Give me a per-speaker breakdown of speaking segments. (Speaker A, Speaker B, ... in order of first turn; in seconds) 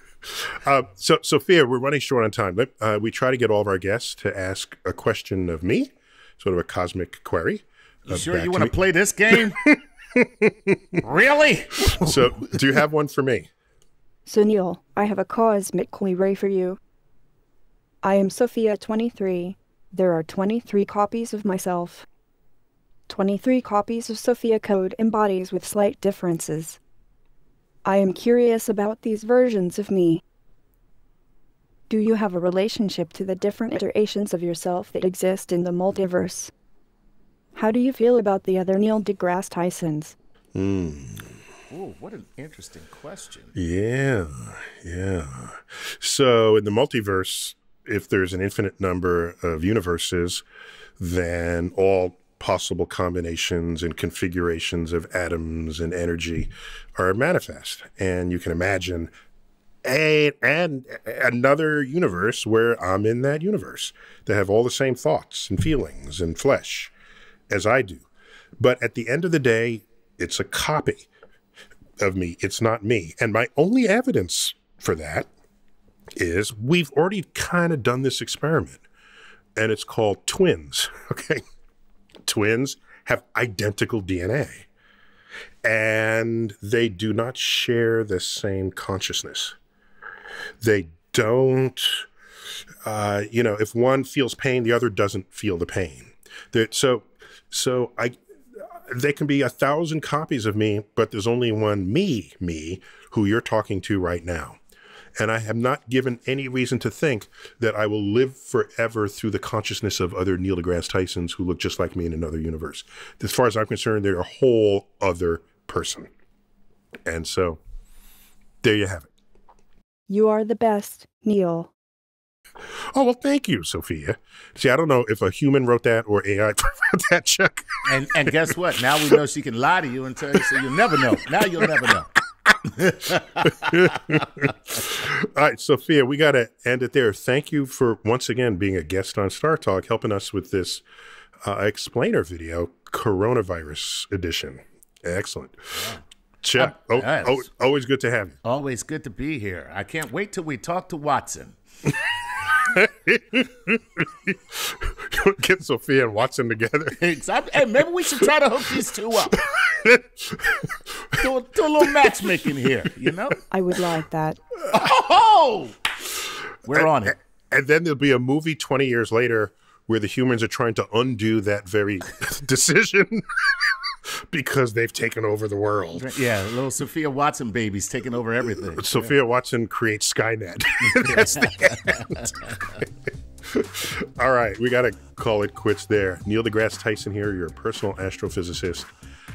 Speaker A: 0.5-8.7, 9.3-11.0, 11.9-13.5, 40.5-41.3, 43.5-50.4, 51.0-59.1, 59.8-66.9, 67.5-68.0, 68.6-71.1, 72.0-75.3, 76.2-78.8, 79.6-81.4, 82.2-84.7, 85.6-89.5, 90.6-92.1, 92.8-104.6, 105.2-116.1, 117.0-117.6, 118.6-119.1, 122.9-127.8, 133.6-140.8, 141.4-145.7, 146.4-148.4, 152.7-157.0, 159.3-160.8, 166.7-176.1, 178.7-182.8, 183.5-188.9
Speaker B: 8.1-9.6, 11.0-12.1, 41.7-43.5, 127.8-133.7, 145.8-146.0, 146.6-147.4, 148.4-151.6, 157.0-159.4, 161.1-163.4, 164.7-165.8, 166.6-167.1, 176.0-179.1, 181.0-182.8
Speaker C: 14.2-16.8, 18.0-22.1, 23.1-26.8, 27.8-30.2, 31.9-36.5, 37.5-40.1, 120.1-121.7, 163.5-164.4